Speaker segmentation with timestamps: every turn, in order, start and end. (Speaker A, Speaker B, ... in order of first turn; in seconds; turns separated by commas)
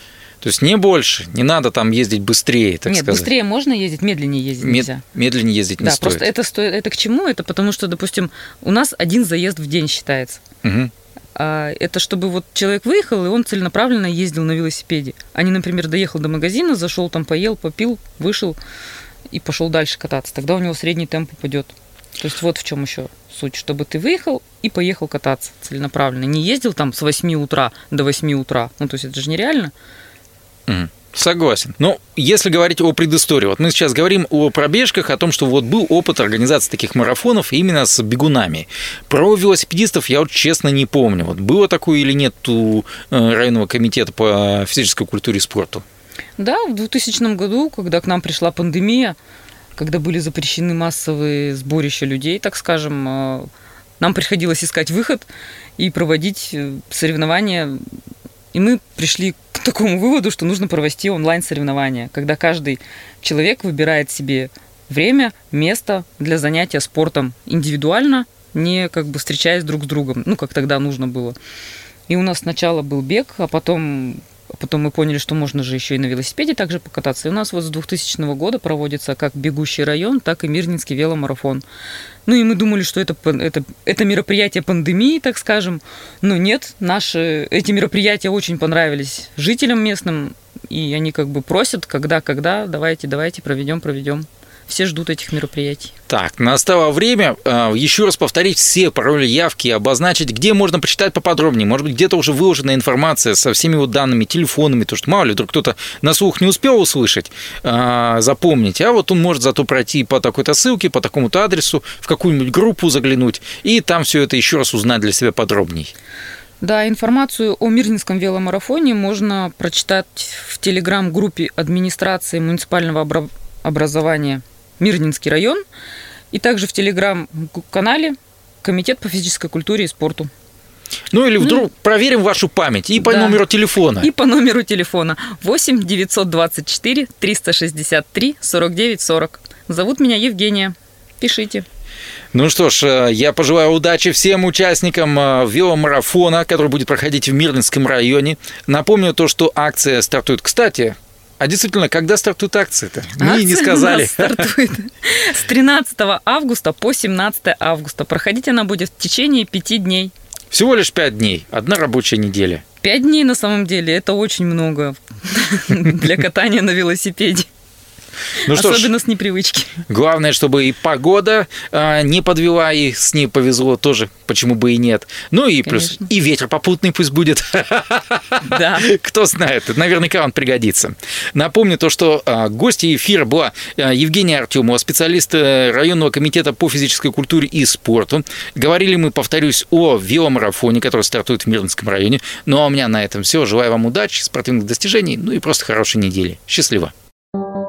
Speaker A: 0.4-3.3, Speaker B: 2.9-5.0, Speaker A: 4.6-6.3, Speaker B: 5.8-10.4, Speaker A: 10.6-10.9, Speaker B: 11.3-18.6, Speaker B: 19.3-29.7, Speaker A: 30.7-45.8, Speaker B: 46.4-49.2, Speaker B: 49.8-53.5, Speaker B: 54.0-57.9, Speaker B: 58.5-71.4, Speaker B: 72.1-81.6, Speaker B: 82.3-95.9, Speaker A: 96.1-115.9, Speaker B: 116.6-125.6, Speaker B: 126.3-130.3, Speaker A: 131.1-134.1, Speaker B: 131.4-131.7, Speaker B: 133.0-133.4, Speaker B: 134.0-141.7, Speaker A: 142.3-154.5, Speaker B: 153.2-160.1, Speaker A: 160.5-162.6, Speaker B: 162.8-167.5, Speaker B: 168.4-169.8, Speaker A: 168.5-168.9, Speaker A: 169.9-196.9, Speaker B: 175.7-176.1, Speaker B: 178.4-178.9